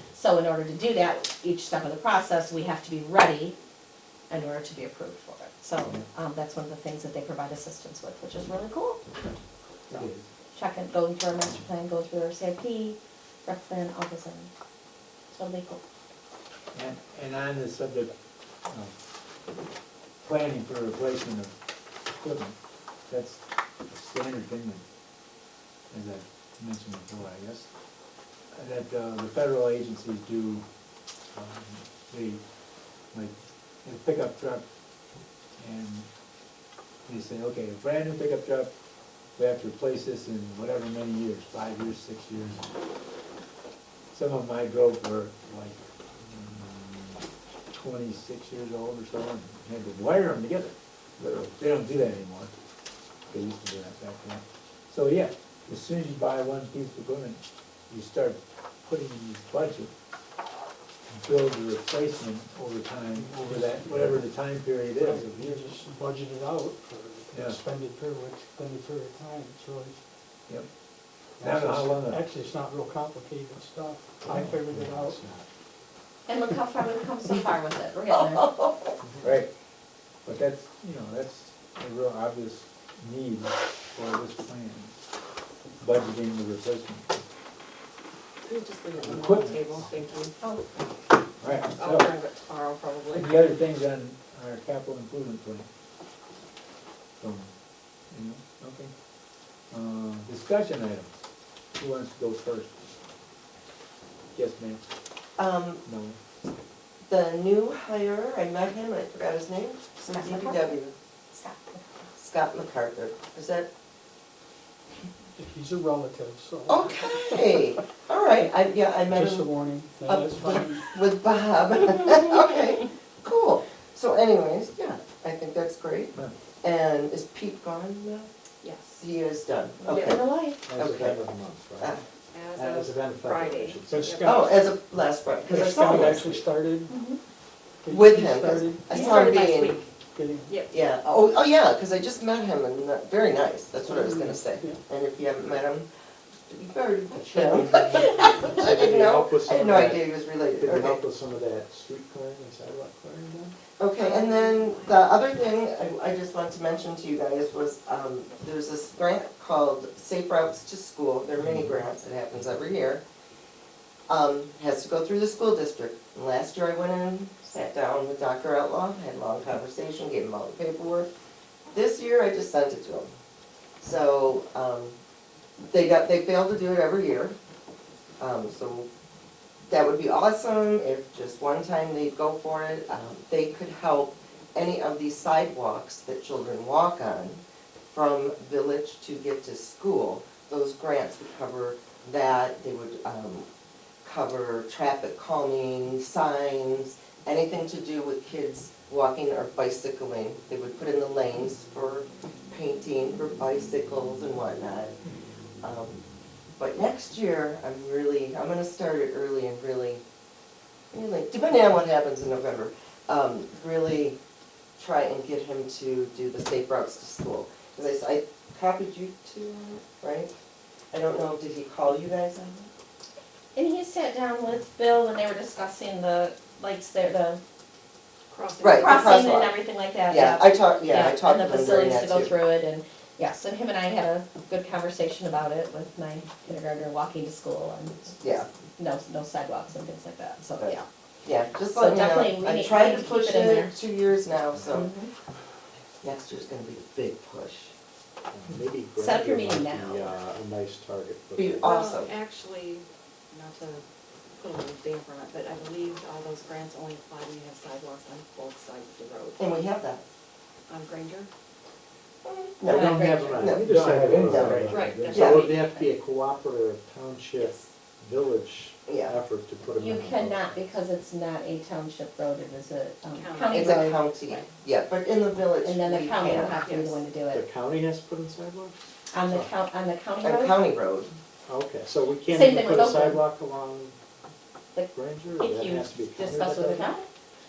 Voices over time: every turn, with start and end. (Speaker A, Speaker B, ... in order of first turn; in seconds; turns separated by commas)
Speaker A: 0.1-3.6, Speaker A: 4.3-9.0, Speaker B: 9.9-10.3, Speaker A: 10.5-14.5, Speaker A: 15.3-15.8, Speaker B: 16.7-18.1, Speaker B: 18.6-18.9, Speaker B: 20.2-21.6, Speaker B: 22.1-22.6, Speaker B: 23.1-24.8, Speaker B: 25.9-27.7, Speaker B: 28.5-30.6, Speaker B: 31.3-32.4, Speaker B: 33.8-34.6, Speaker B: 35.6-36.1, Speaker B: 37.1-38.7, Speaker B: 39.4-42.7, Speaker B: 44.1-52.5, Speaker B: 53.3-59.9, Speaker B: 61.2-65.6, Speaker C: 63.1-64.2, Speaker C: 64.9-70.0, Speaker B: 67.3-67.6, Speaker C: 71.4-75.2, Speaker B: 71.4-72.2, Speaker D: 74.3-75.5, Speaker B: 74.3-74.6, Speaker A: 76.3-78.5, Speaker E: 78.3-78.9, Speaker D: 79.0-79.4, Speaker B: 79.2-79.5, Speaker B: 80.2-85.0, Speaker B: 85.8-87.3, Speaker F: 88.4-90.4, Speaker B: 89.0-89.9, Speaker B: 91.4-92.1, Speaker F: 91.8-93.4, Speaker B: 93.1-95.7, Speaker B: 97.2-97.5, Speaker B: 98.1-98.9, Speaker B: 99.7-101.2, Speaker B: 101.8-102.7, Speaker B: 104.3-104.8, Speaker E: 105.4-105.8, Speaker B: 105.8-106.2, Speaker E: 107.1-110.9, Speaker A: 110.0-110.8, Speaker A: 111.3-111.8, Speaker E: 112.2-113.7, Speaker C: 115.4-117.4, Speaker E: 116.7-119.5, Speaker C: 119.1-120.9, Speaker E: 120.0-128.3, Speaker F: 128.6-129.0, Speaker E: 129.0-131.2, Speaker F: 129.9-130.2, Speaker A: 129.9-130.6, Speaker D: 130.7-132.0, Speaker F: 132.3-134.6, Speaker D: 132.5-134.3, Speaker C: 133.9-134.6, Speaker E: 134.2-136.4, Speaker C: 135.4-137.0, Speaker D: 136.1-136.4, Speaker A: 136.9-137.2, Speaker C: 137.8-139.0, Speaker E: 137.9-139.8, Speaker A: 138.9-139.3, Speaker F: 138.9-139.9, Speaker C: 140.0-140.6, Speaker F: 140.5-140.8, Speaker E: 140.7-145.9, Speaker C: 143.8-144.8, Speaker E: 146.5-151.0, Speaker D: 147.2-153.6, Speaker E: 153.8-163.0, Speaker F: 154.0-155.2, Speaker E: 164.1-171.1, Speaker E: 171.7-173.1, Speaker E: 173.8-175.0, Speaker E: 175.7-177.4, Speaker E: 178.2-178.9, Speaker E: 179.7-193.5, Speaker E: 194.0-204.9, Speaker E: 205.6-210.0, Speaker E: 210.9-214.2, Speaker E: 214.8-220.3, Speaker E: 220.9-222.7, Speaker A: 223.6-227.4, Speaker F: 228.3-229.3, Speaker E: 228.6-229.6, Speaker A: 228.8-238.2, Speaker E: 230.1-232.3, Speaker E: 238.2-238.5, Speaker A: 238.8-240.9, Speaker E: 240.6-244.9, Speaker A: 241.7-243.7, Speaker A: 244.7-245.1, Speaker E: 246.0-247.7, Speaker D: 248.3-251.8, Speaker A: 249.0-250.2, Speaker E: 251.4-252.1, Speaker F: 251.6-253.8, Speaker F: 254.4-259.5, Speaker E: 259.4-260.0, Speaker F: 260.7-261.3, Speaker E: 262.2-265.5, Speaker D: 262.7-270.8, Speaker A: 262.8-263.5, Speaker B: 263.7-265.1, Speaker F: 264.7-265.9, Speaker E: 268.9-269.2, Speaker A: 269.8-274.0, Speaker F: 273.1-274.5, Speaker E: 273.5-276.6, Speaker A: 275.6-277.5, Speaker F: 276.6-277.0, Speaker D: 277.3-279.5, Speaker A: 279.1-280.7, Speaker E: 280.2-281.1, Speaker D: 281.5-284.0, Speaker A: 282.3-283.2, Speaker A: 284.8-287.1, Speaker D: 284.9-286.9